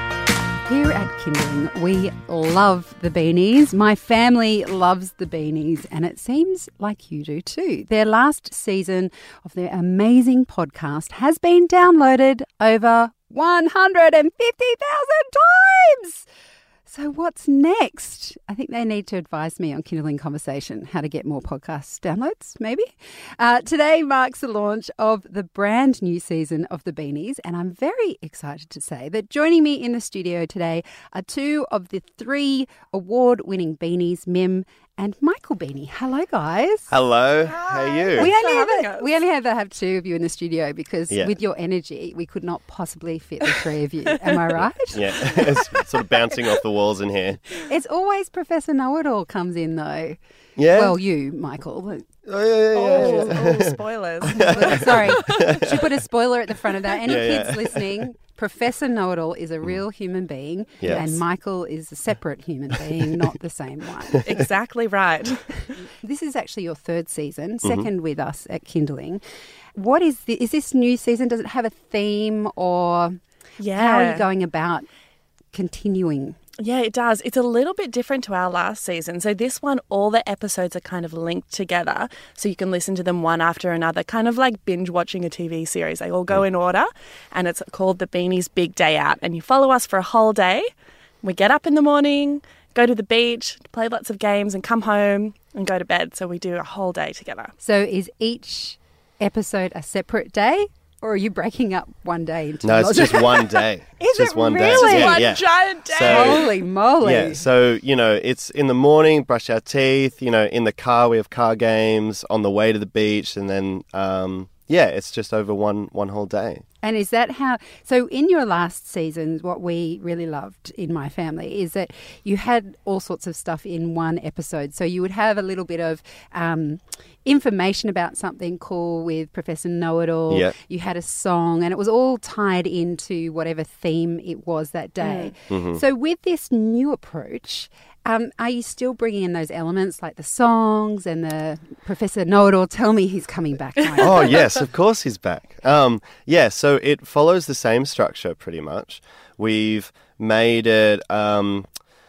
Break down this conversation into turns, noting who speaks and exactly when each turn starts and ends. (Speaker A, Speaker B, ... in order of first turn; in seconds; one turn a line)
Speaker A: 0.7-16.2
Speaker A: 16.9-36.9
Speaker B: 36.9-38.3
Speaker C: 37.4-39.2
Speaker A: 38.1-45.5
Speaker B: 41.1-41.3
Speaker B: 44.9-47.5
Speaker A: 47.6-52.1
Speaker B: 50.5-51.0
Speaker B: 52.2-55.9
Speaker C: 52.7-55.4
Speaker A: 52.9-53.3
Speaker A: 54.3-64.2
Speaker B: 57.0-57.9
Speaker B: 60.8-61.2
Speaker C: 60.8-61.1
Speaker C: 64.2-65.7
Speaker A: 66.0-69.2
Speaker B: 67.6-67.9
Speaker A: 69.7-73.2
Speaker C: 73.6-74.2
Speaker A: 73.7-74.9
Speaker A: 75.5-76.3
Speaker C: 76.6-90.7
Speaker C: 91.2-97.5
Speaker A: 97.6-105.3
Speaker B: 102.6-116.6
Speaker C: 104.7-106.5
Speaker A: 106.0-107.4
Speaker A: 116.8-144.4
Speaker C: 135.0-135.3
Speaker B: 135.5-135.8
Speaker B: 144.0-151.7